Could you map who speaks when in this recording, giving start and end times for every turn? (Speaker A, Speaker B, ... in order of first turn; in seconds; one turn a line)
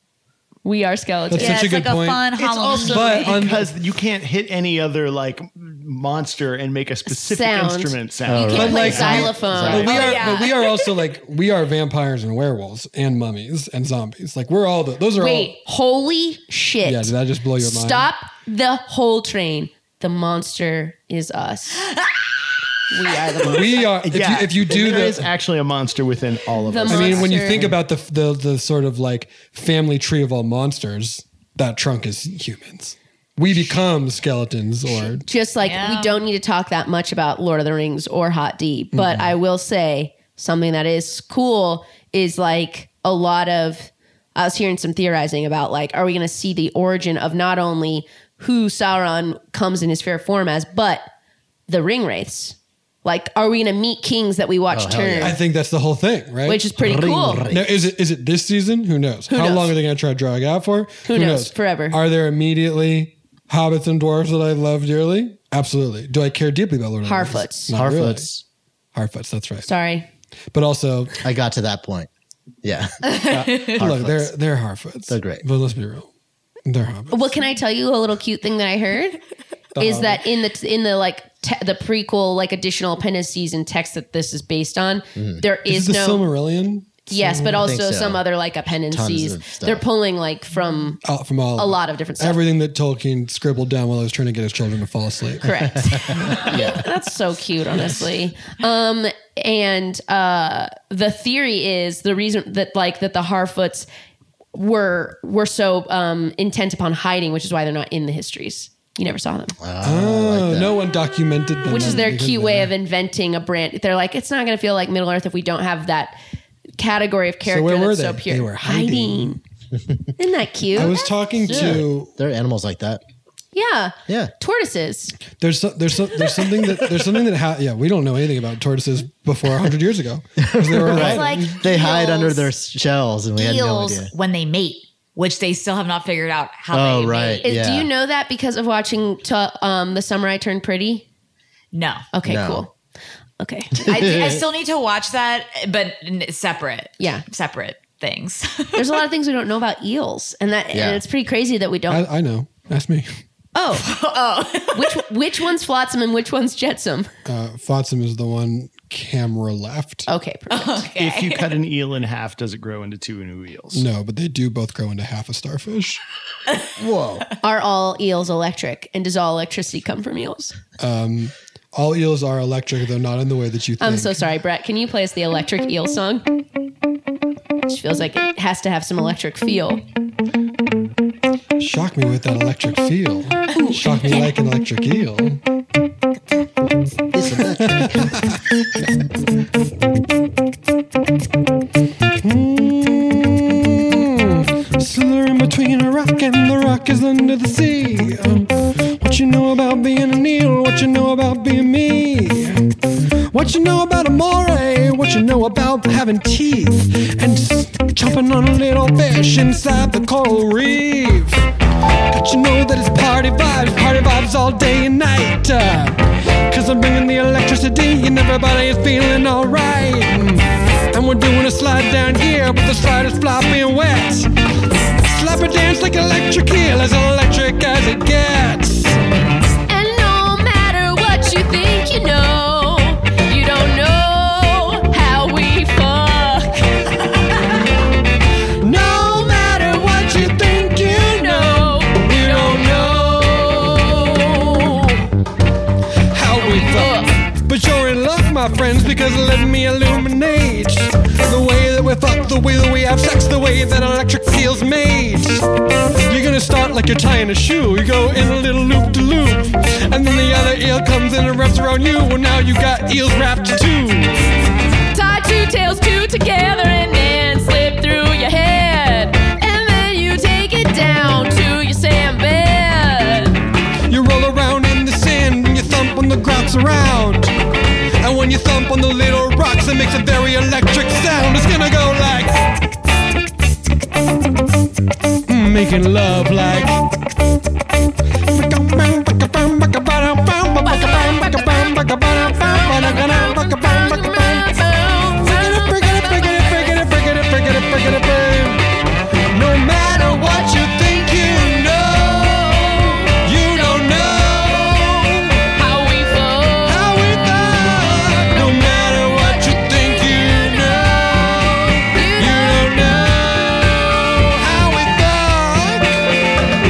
Speaker A: 0.6-1.6
Speaker B: 1.3-3.7
Speaker C: 1.3-3.6
Speaker D: 2.3-10.1
Speaker A: 7.1-10.3
Speaker E: 8.2-9.9
Speaker B: 8.5-15.5
Speaker C: 9.9-11.1
Speaker A: 15.2-21.9
Speaker B: 16.8-18.1
Speaker A: 22.9-23.9
Speaker B: 23.4-25.3
Speaker D: 23.9-27.8
Speaker A: 26.7-27.7
Speaker B: 26.9-35.2
Speaker A: 35.2-51.1
Speaker C: 35.6-36.2
Speaker B: 38.9-39.3
Speaker A: 51.7-55.4
Speaker E: 54.7-55.4
Speaker B: 55.2-68.3
Speaker A: 56.5-57.5
Speaker E: 56.8-57.8
Speaker A: 59.3-59.8
Speaker A: 61.0-62.0
Speaker A: 67.0-67.7
Speaker E: 67.7-68.4
Speaker B: 68.9-69.7
Speaker A: 69.6-70.0
Speaker B: 70.5-71.2
Speaker E: 71.2-72.1
Speaker E: 72.6-74.3
Speaker C: 73.0-73.8
Speaker B: 73.5-76.1
Speaker E: 75.1-75.4
Speaker B: 76.7-77.4
Speaker A: 77.1-79.2
Speaker B: 79.8-80.2
Speaker A: 79.8-86.3
Speaker E: 85.2-85.4
Speaker B: 85.7-87.7
Speaker A: 87.1-91.0
Speaker E: 87.4-88.2
Speaker E: 88.9-89.8
Speaker B: 91.0-96.6
Speaker A: 91.5-92.4
Speaker A: 95.4-103.9
Speaker E: 96.4-96.8
Speaker A: 104.5-109.5
Speaker E: 109.6-110.7
Speaker B: 109.8-112.7
Speaker A: 111.6-116.2
Speaker A: 116.8-119.4
Speaker B: 117.4-119.4
Speaker A: 120.2-121.8
Speaker B: 120.7-122.1
Speaker E: 121.4-123.0
Speaker A: 123.5-125.2
Speaker B: 125.4-131.6
Speaker E: 130.4-134.1
Speaker A: 130.9-132.4
Speaker C: 131.7-132.3
Speaker C: 133.4-137.5
Speaker E: 136.7-137.9
Speaker A: 137.4-141.0
Speaker C: 141.7-142.1
Speaker A: 142.1-142.7
Speaker E: 142.2-142.7
Speaker A: 143.4-143.8
Speaker E: 143.8-144.4
Speaker C: 143.8-149.0
Speaker A: 147.0-147.2
Speaker A: 148.7-152.0
Speaker E: 150.7-151.0
Speaker B: 151.9-153.1
Speaker A: 153.5-153.9
Speaker C: 153.7-155.0
Speaker A: 154.7-157.1
Speaker B: 157.2-160.1
Speaker A: 160.1-160.8
Speaker C: 160.5-161.6
Speaker D: 160.9-163.9
Speaker B: 163.7-166.0
Speaker E: 166.8-167.2
Speaker A: 167.4-170.6
Speaker B: 170.8-174.3
Speaker A: 173.8-176.2
Speaker A: 177.7-179.8
Speaker B: 181.6-185.4
Speaker A: 183.5-184.3
Speaker E: 187.1-188.2
Speaker B: 187.4-188.4
Speaker B: 192.2-202.6
Speaker B: 203.3-211.5
Speaker B: 212.1-216.0
Speaker B: 216.5-224.3
Speaker B: 225.0-229.0
Speaker A: 229.7-236.8
Speaker B: 238.6-243.7
Speaker A: 240.8-245.0
Speaker B: 246.1-255.4
Speaker A: 246.4-247.2
Speaker B: 256.1-264.3
Speaker A: 264.9-273.4
Speaker B: 273.9-277.3
Speaker B: 278.0-282.4
Speaker B: 285.3-286.8
Speaker B: 288.3-294.5
Speaker A: 290.6-291.7
Speaker A: 292.4-296.8
Speaker B: 295.2-298.6
Speaker B: 299.3-305.4
Speaker A: 302.5-304.0
Speaker A: 305.5-307.3
Speaker B: 306.6-316.0
Speaker A: 308.1-309.7
Speaker A: 311.9-312.7